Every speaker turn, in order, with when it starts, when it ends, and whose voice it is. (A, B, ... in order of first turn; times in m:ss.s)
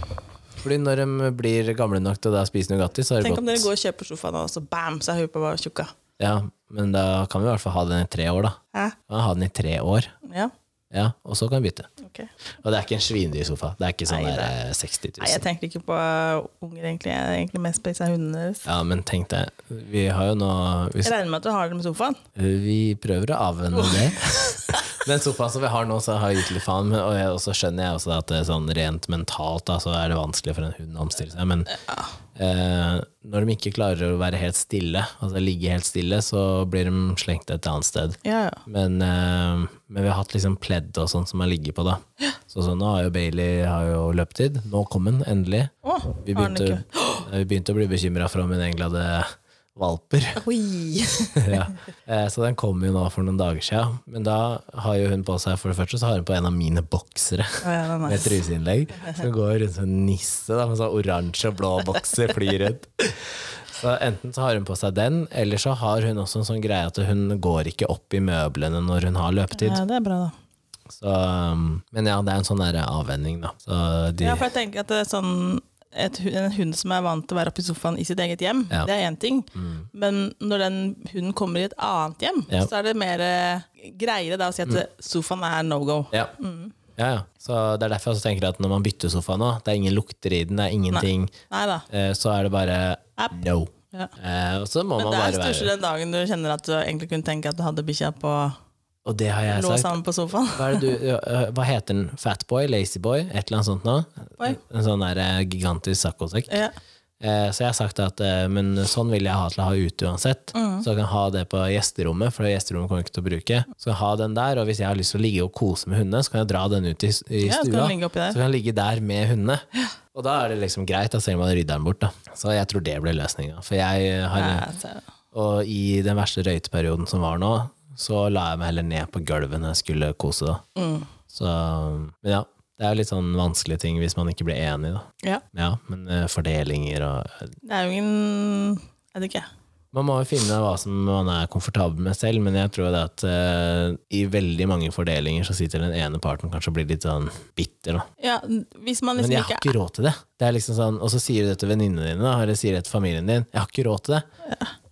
0:00.6-0:03.7 A
0:03.2-0:05.9 B
0:06.2-0:10.1 A
0:10.2-0:10.5 B
0:10.9-0:11.9 A
0:12.0-0:12.3 B
0:12.6-0:15.4 A
0:14.1-0:14.5 B
0:15.2-0:18.7 B
0:18.6-0:21.1 A
0:21.0-0:22.2 B
0:22.4-0:31.7 A
0:23.7-0:24.9 B
0:31.7-0:32.1 B
0:32.4-0:50.4 A
0:38.2-0:38.6 B
0:45.8-0:47.3 B
0:50.4-0:51.7 B
0:51.3-1:09.8 A
0:57.6-0:58.4 B
1:09.6-1:10.3 B
1:10.9-1:14.4 A
1:14.2-1:26.8 B
1:19.6-1:19.9 A
1:27.0-1:31.3 A
1:30.9-1:31.9 B
1:31.9-1:35.7 A
1:35.0-1:38.6 B
1:39.0-1:40.0 A
1:39.5-1:41.0 B
1:40.5-1:46.6 A
1:46.5-1:46.7 B
1:47.2-2:04.6 A
1:50.6-1:50.9 B
1:57.4-1:58.4 B
2:04.4-2:05.0 B
2:05.3-2:10.6 A
2:10.8-2:11.1 B
2:11.3-2:17.6 A
2:17.6-2:19.5 B
2:19.9-2:28.1 A
2:28.2-2:29.7 B
2:29.2-2:34.2 A
2:34.4-2:34.7 B